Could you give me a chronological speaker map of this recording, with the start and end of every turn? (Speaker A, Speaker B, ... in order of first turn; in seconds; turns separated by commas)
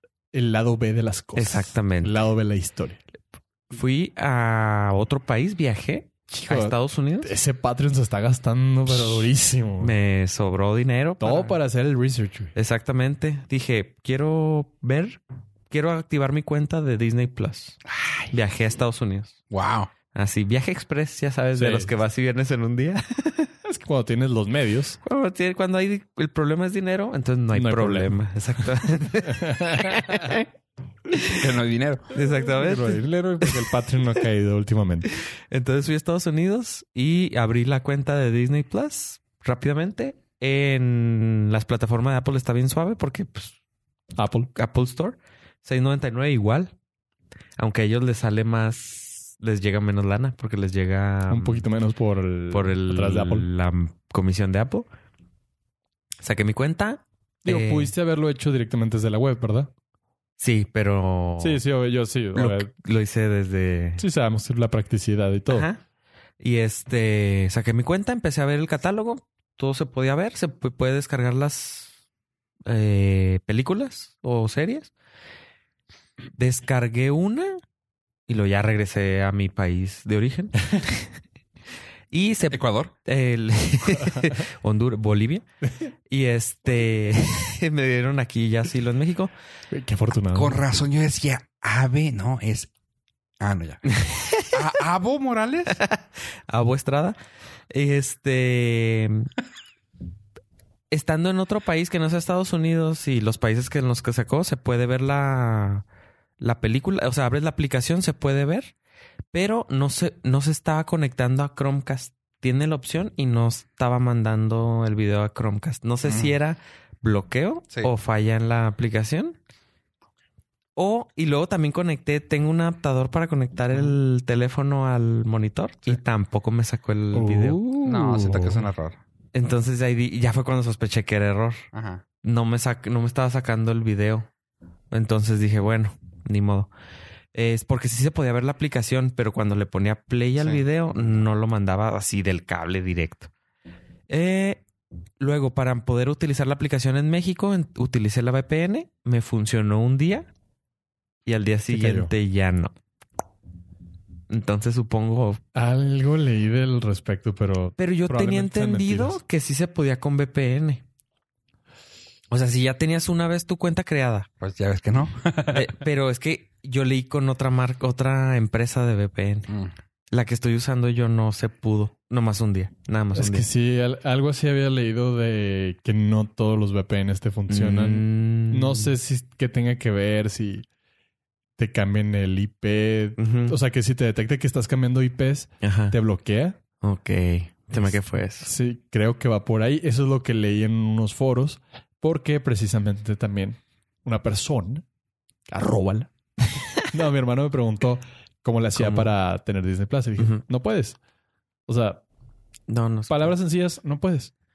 Speaker A: 0.3-3.0, Speaker B: 1.3-2.2, Speaker B: 3.7-7.3, Speaker A: 6.3-9.9, Speaker B: 8.9-11.6, Speaker A: 11.2-12.5, Speaker B: 12.5-17.8, Speaker C: 17.9-18.3, Speaker B: 18.3-19.4, Speaker C: 19.5-19.9, Speaker B: 20.1-23.5, Speaker A: 21.6-21.9, Speaker A: 23.6-25.0, Speaker B: 25.0-30.5, Speaker A: 27.5-28.1, Speaker A: 28.9-30.4, Speaker C: 31.2-32.1, Speaker B: 32.1-33.6, Speaker A: 32.3-35.1, Speaker B: 35.1-43.5, Speaker A: 44.2-44.5, Speaker B: 44.5-46.7, Speaker B: 47.6-51.6, Speaker A: 51.3-53.5, Speaker B: 52.5-54.9, Speaker B: 56.2-57.9, Speaker A: 57.4-59.7, Speaker B: 60.4-61.6, Speaker A: 61.4-62.7, Speaker B: 62.3-64.0, Speaker A: 64.0-65.7, Speaker B: 65.5-65.8, Speaker B: 66.4-71.9, Speaker B: 72.7-74.9, Speaker B: 76.4-77.6, Speaker B: 78.3-81.1, Speaker B: 82.1-85.4, Speaker C: 82.5-82.9, Speaker A: 84.0-84.3, Speaker B: 86.1-89.3, Speaker A: 89.7-90.6, Speaker C: 90.3-92.7, Speaker C: 93.4-93.9, Speaker B: 93.9-94.6, Speaker C: 94.5-95.8, Speaker B: 95.7-97.2, Speaker B: 97.7-99.3, Speaker B: 100.9-105.8, Speaker B: 106.4-108.7, Speaker B: 109.3-119.4, Speaker C: 116.0-116.3, Speaker B: 120.8-127.6, Speaker A: 127.1-128.7, Speaker C: 127.8-129.0, Speaker B: 129.3-131.7, Speaker C: 131.7-132.0, Speaker B: 132.2-134.3, Speaker B: 134.9-136.7, Speaker B: 137.3-143.3, Speaker C: 140.4-141.2, Speaker B: 144.1-144.6, Speaker B: 145.2-150.3, Speaker B: 151.2-152.7, Speaker A: 151.7-152.1, Speaker B: 154.3-155.4, Speaker A: 155.5-159.2, Speaker B: 157.8-160.8, Speaker B: 162.3-164.3, Speaker C: 164.4-165.7, Speaker B: 165.5-169.5, Speaker C: 169.5-169.7, Speaker B: 170.1-173.5, Speaker A: 173.1-180.7, Speaker B: 177.5-178.9, Speaker A: 181.6-186.6, Speaker B: 183.2-183.6, Speaker B: 185.6-185.9, Speaker B: 186.8-188.5, Speaker A: 187.8-194.8, Speaker A: 195.5-196.1, Speaker A: 196.7-201.0, Speaker B: 198.8-199.1, Speaker A: 201.7-202.0, Speaker B: 202.7-203.3, Speaker A: 203.1-204.3